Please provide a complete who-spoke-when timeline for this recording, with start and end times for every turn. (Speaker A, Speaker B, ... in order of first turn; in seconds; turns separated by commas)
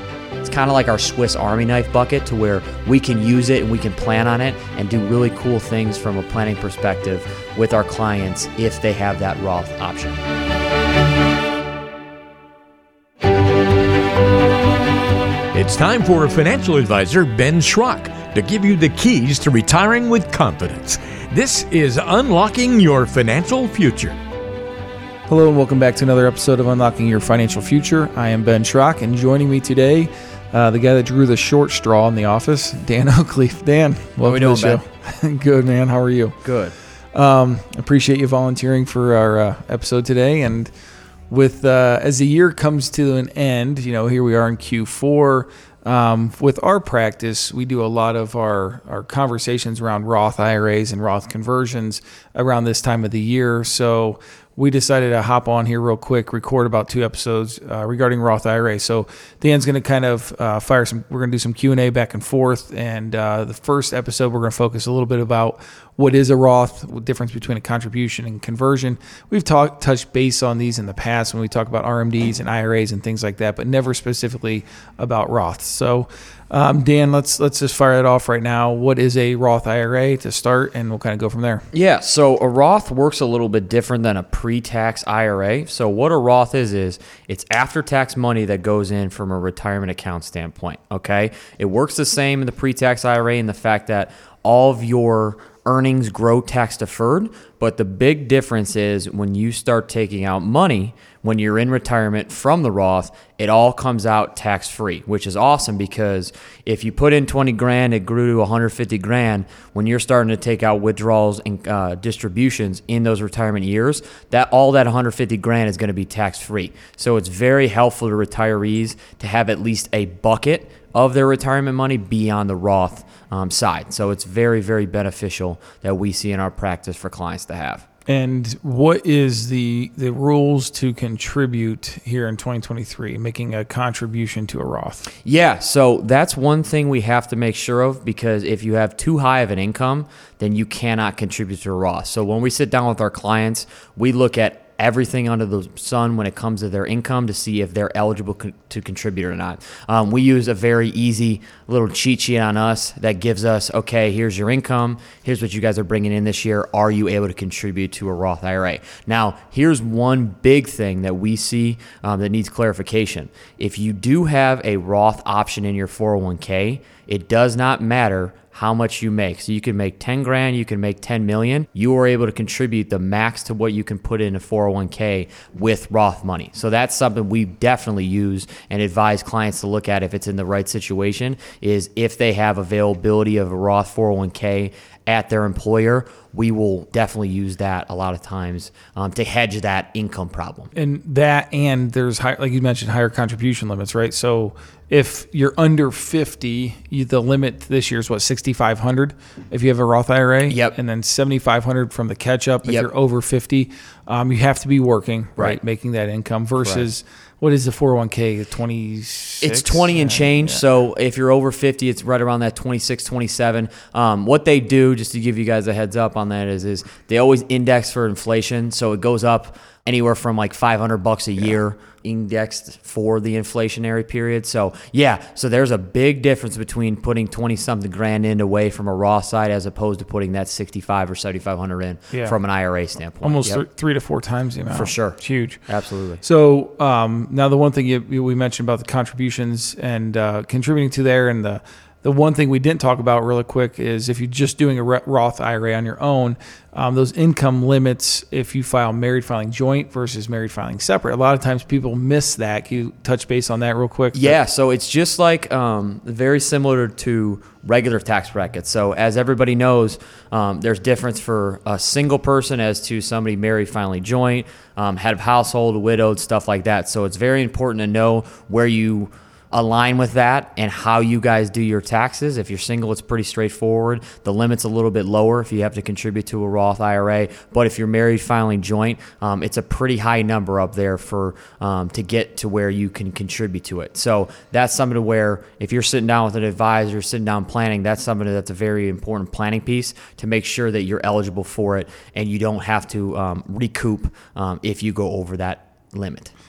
Speaker A: 0.4-10.2, Speaker B: 15.5-24.2, Speaker C: 25.3-36.4, Speaker A: 34.2-34.8, Speaker A: 36.4-36.8, Speaker C: 37.1-40.7, Speaker C: 41.3-81.7, Speaker A: 81.7-127.8, Speaker C: 128.1-135.1, Speaker A: 135.2-190.7, Speaker C: 190.8-210.6, Speaker A: 200.5-200.8, Speaker A: 202.6-202.9, Speaker A: 206.6-206.9, Speaker A: 209.4-233.6, Speaker C: 232.1-232.4, Speaker C: 233.2-235.6, Speaker A: 234.7-236.2, Speaker C: 236.2-254.4, Speaker A: 254.1-296.3